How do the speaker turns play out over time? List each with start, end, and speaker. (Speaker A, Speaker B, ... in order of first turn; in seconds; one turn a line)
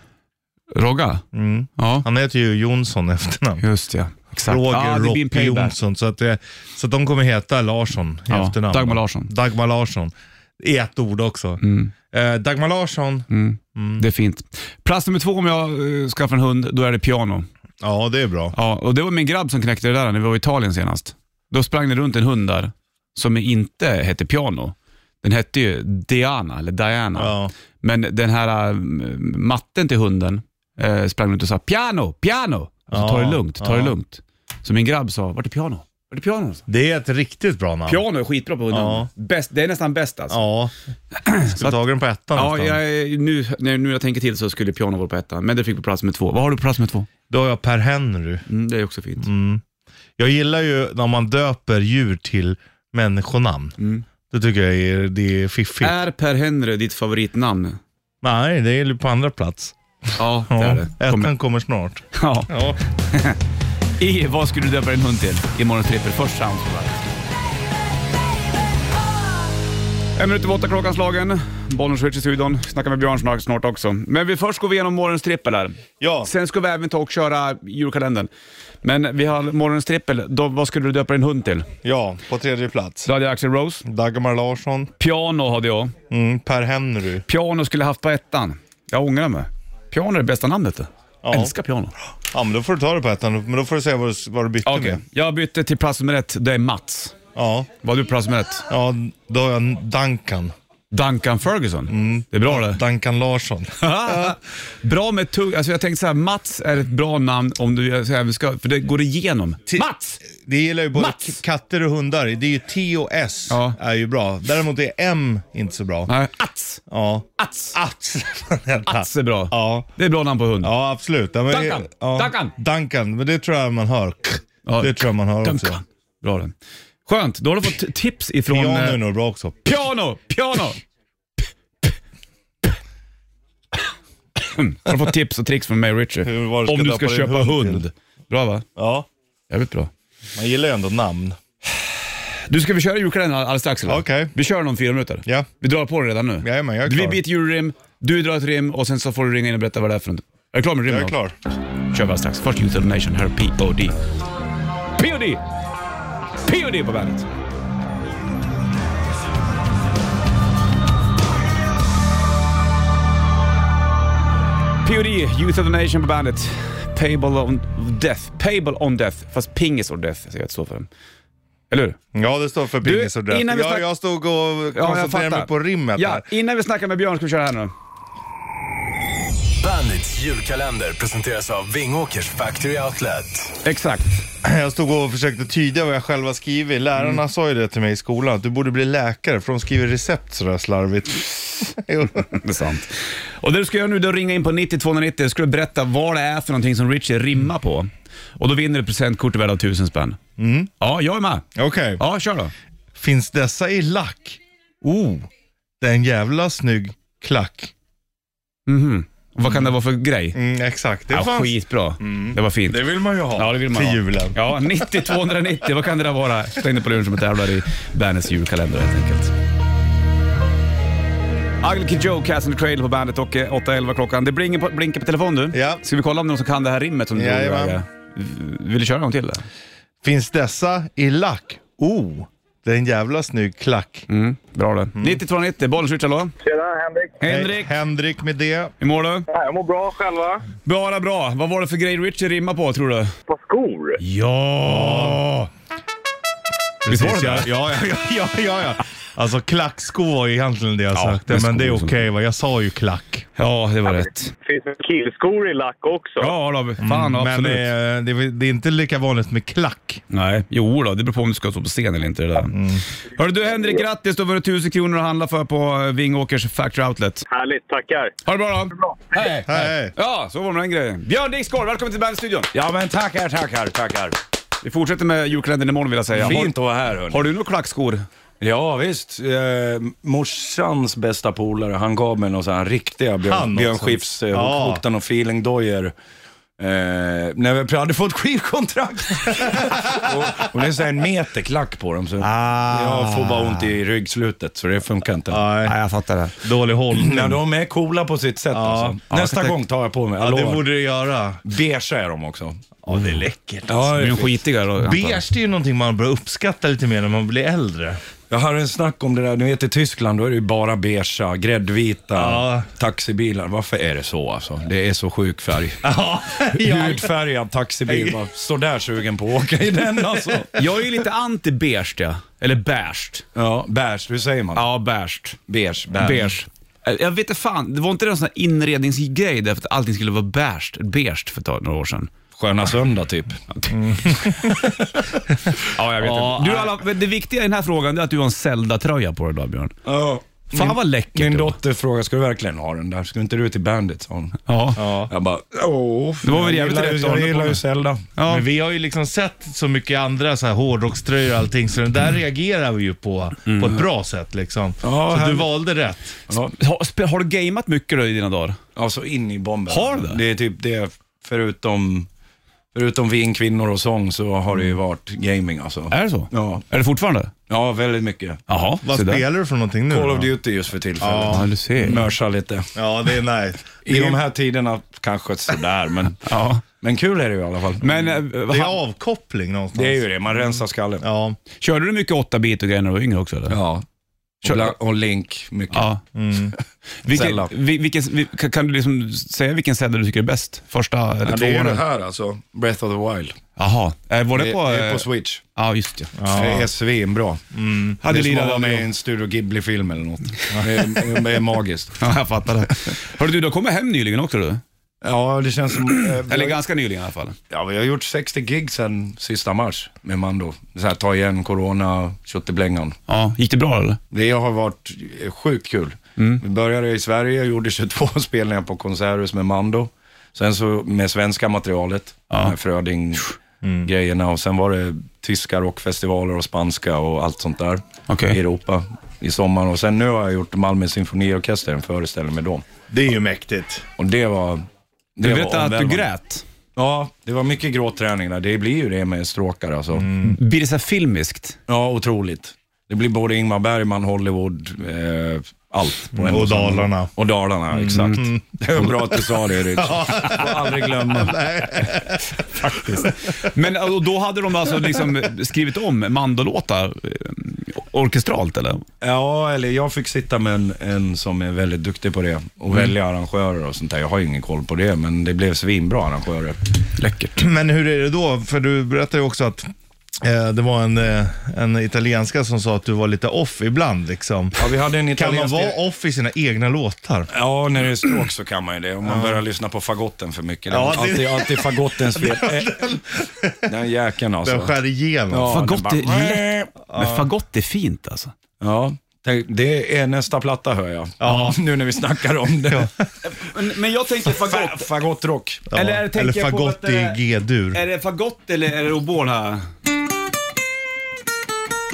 Speaker A: 0.7-1.2
Speaker B: 1.3-3.6
Speaker A: 1.8-2.0
Speaker A: 3.6-5.7
Speaker B: 4.4-14.0
Speaker A: 8.3-9.3
Speaker A: 11.6-11.9
Speaker A: 13.3-17.5
Speaker B: 17.8-18.5
Speaker A: 18.5-36.6
Speaker B: 27.1-27.5
Speaker B: 32.9-34.0
Speaker B: 36.7-38.0
Speaker A: 37.9-40.4
Speaker B: 38.7-39.1
Speaker B: 40.3-40.7
Speaker A: 41.2-41.8
Speaker B: 41.4-42.8
Speaker A: 42.3-47.1
Speaker B: 47.3-48.4
Speaker A: 48.5-49.3
Speaker B: 49.2-49.6
Speaker B: 50.2-53.8
Speaker A: 53.8-54.0
Speaker B: 54.3-56.0
Speaker A: 55.8-57.8
Speaker B: 58.2-59.7
Speaker A: 60.2-61.3
Speaker B: 60.5-62.8
Speaker A: 62.1-63.4
Speaker A: 64.0-67.1
Speaker A: 70.2-78.3
Speaker B: 76.0-76.3
Speaker A: 78.8-81.7
Speaker B: 81.8-83.1
Speaker A: 83.0-83.8
Speaker B: 83.8-84.9
Speaker A: 85.0-85.9
Speaker B: 86.1-87.2
Speaker A: 87.2-91.9
Speaker B: 91.2-91.5
Speaker B: 92.3-95.0
Speaker A: 94.7-97.2
Speaker B: 97.3-97.7
Speaker A: 97.8-98.7
Speaker B: 98.7-100.5
Speaker A: 100.9-102.8
Speaker B: 101.9-104.4
Speaker A: 103.8-110.2
Speaker B: 109.7-116.1
Speaker A: 110.9-111.3
Speaker A: 113.5-113.8
Speaker A: 116.1-116.8
Speaker B: 116.9-119.9
Speaker A: 117.4-117.7
Speaker A: 118.8-120.7
Speaker B: 120.6-125.8
Speaker A: 121.5-122.5
Speaker A: 124.7-126.5
Speaker A: 127.0-129.0
Speaker B: 128.5-129.7
Speaker A: 129.6-130.8
Speaker A: 134.4-138.6
Speaker B: 136.2-137.9
Speaker B: 138.8-139.1
Speaker A: 139.5-139.9
Speaker B: 140.3-141.4
Speaker A: 142.5-151.2
Speaker B: 143.8-144.3
Speaker B: 146.4-147.2
Speaker B: 150.8-151.3
Speaker A: 151.9-154.0
Speaker A: 155.0-155.4
Speaker A: 156.4-157.3
Speaker A: 164.8-170.9
Speaker A: 171.7-172.0
Speaker B: 172.1-176.3
Speaker A: 172.8-173.8
Speaker A: 174.7-177.7
Speaker C: 179.6-183.5
Speaker A: 183.6-184.2
Speaker B: 184.4-192.4
Speaker A: 192.3-200.2
Speaker B: 200.4-200.7
Speaker A: 200.8-201.4
Speaker B: 201.5-202.0
Speaker A: 202.0-202.5
Speaker B: 202.9-204.4
Speaker A: 204.8-205.2
Speaker B: 205.8-207.7
Speaker A: 208.7-210.4
Speaker B: 210.3-214.8
Speaker A: 211.1-212.8
Speaker A: 213.3-219.3
Speaker A: 221.6-229.4
Speaker B: 225.5-225.8
Speaker B: 227.1-227.8
Speaker B: 230.0-234.1
Speaker A: 234.1-236.3
Speaker B: 234.9-235.2
Speaker D: 236.4-237.2
Speaker A: 237.2-237.7
Speaker B: 237.2-238.7
Speaker A: 238.8-239.3
Speaker D: 239.3-240.4
Speaker A: 240.6-243.1
Speaker D: 243.3-244.0
Speaker A: 244.0-245.5
Speaker B: 244.6-245.3
Speaker B: 246.8-253.3
Speaker A: 246.9-247.5
Speaker A: 250.9-252.0
Speaker A: 253.4-254.3
Speaker D: 253.9-256.3
Speaker A: 256.2-257.7
Speaker B: 256.8-260.0
Speaker A: 260.1-262.5
Speaker B: 262.5-262.8
Speaker A: 263.1-267.2
Speaker D: 267.3-268.1
Speaker A: 268.2-272.5
Speaker D: 268.8-269.2
Speaker B: 269.4-269.9
Speaker E: 272.5-274.2
Speaker A: 274.6-276.5
Speaker E: 276.2-277.3
Speaker A: 277.1-278.0
Speaker E: 278.4-285.9
Speaker B: 283.2-284.8
Speaker E: 286.6-295.4
Speaker B: 289.9-290.3
Speaker B: 292.2-293.7
Speaker B: 295.3-295.7
Speaker A: 295.6-296.4
Speaker B: 296.4-297.4
Speaker E: 296.9-300.7
Speaker B: 298.5-299.0
Speaker A: 299.1-299.6
Speaker B: 300.2-301.4
Speaker E: 301.4-302.6
Speaker B: 302.8-303.9
Speaker E: 303.7-304.4
Speaker A: 303.9-305.2
Speaker B: 304.8-308.0
Speaker E: 308.3-315.8
Speaker B: 312.1-312.7
Speaker B: 315.8-317.1
Speaker E: 316.5-320.5
Speaker B: 317.9-318.2
Speaker A: 320.5-323.2
Speaker E: 323.3-324.7
Speaker A: 324.5-325.4
Speaker E: 325.5-326.3
Speaker A: 326.0-332.1
Speaker E: 332.3-333.4
Speaker B: 333.7-334.6
Speaker E: 334.5-334.9
Speaker A: 335.7-339.8
Speaker B: 336.0-336.8
Speaker E: 339.8-344.4
Speaker A: 340.5-341.6
Speaker A: 344.5-344.8
Speaker B: 344.8-345.1
Speaker E: 345.1-348.0
Speaker A: 346.2-347.6
Speaker A: 348.1-348.4
Speaker B: 348.2-356.2
Speaker A: 353.5-353.8
Speaker E: 354.8-355.5
Speaker E: 356.3-356.5
Speaker A: 356.5-358.6
Speaker E: 358.8-362.1
Speaker A: 359.7-360.2
Speaker E: 362.7-366.6
Speaker A: 365.9-367.3
Speaker E: 367.5-368.4
Speaker A: 368.5-369.2
Speaker B: 368.8-370.3
Speaker E: 369.9-372.7
Speaker B: 371.0-371.5
Speaker A: 371.3-372.0
Speaker B: 372.7-374.2
Speaker E: 373.8-378.2
Speaker A: 376.2-376.6
Speaker A: 377.8-378.8
Speaker B: 378.5-380.4
Speaker E: 379.7-381.0
Speaker B: 381.0-381.4
Speaker A: 381.6-383.6
Speaker E: 383.5-383.8
Speaker E: 384.4-385.9
Speaker A: 384.4-384.7
Speaker A: 385.7-386.0
Speaker B: 386.1-386.5
Speaker A: 387.1-391.8
Speaker E: 387.1-387.5
Speaker E: 391.2-393.4
Speaker A: 393.6-396.1
Speaker E: 394.3-395.4
Speaker B: 396.2-396.7
Speaker E: 396.3-397.4
Speaker B: 397.5-398.0
Speaker A: 398.0-398.8
Speaker E: 398.0-402.0
Speaker A: 402.0-404.6
Speaker E: 405.0-406.6
Speaker A: 405.9-407.4
Speaker E: 407.5-412.9
Speaker A: 413.1-414.0
Speaker E: 414.1-432.6
Speaker A: 416.2-416.4
Speaker A: 422.3-422.6
Speaker B: 423.6-423.9
Speaker A: 428.1-428.4
Speaker B: 432.9-433.9
Speaker E: 434.0-434.6
Speaker E: 435.2-436.1
Speaker A: 435.2-436.4
Speaker E: 436.8-440.1
Speaker B: 439.9-440.4
Speaker A: 440.2-441.6
Speaker E: 441.7-451.4
Speaker B: 446.1-447.1
Speaker B: 447.8-449.0
Speaker A: 447.9-448.2
Speaker B: 449.8-453.4
Speaker A: 452.6-458.8
Speaker E: 459.0-466.6
Speaker A: 467.0-467.4
Speaker B: 467.4-469.7
Speaker B: 470.2-477.3
Speaker E: 474.6-475.8
Speaker E: 477.3-482.9
Speaker B: 479.0-479.4
Speaker B: 480.7-483.6
Speaker E: 483.7-484.8
Speaker B: 484.4-485.6
Speaker E: 485.3-486.7
Speaker A: 485.5-488.3
Speaker B: 486.9-487.3
Speaker E: 488.6-492.9
Speaker B: 491.2-491.6
Speaker B: 492.7-493.0
Speaker A: 493.2-494.9
Speaker E: 494.3-495.7
Speaker B: 495.7-497.8
Speaker A: 495.7-497.2
Speaker A: 497.7-499.6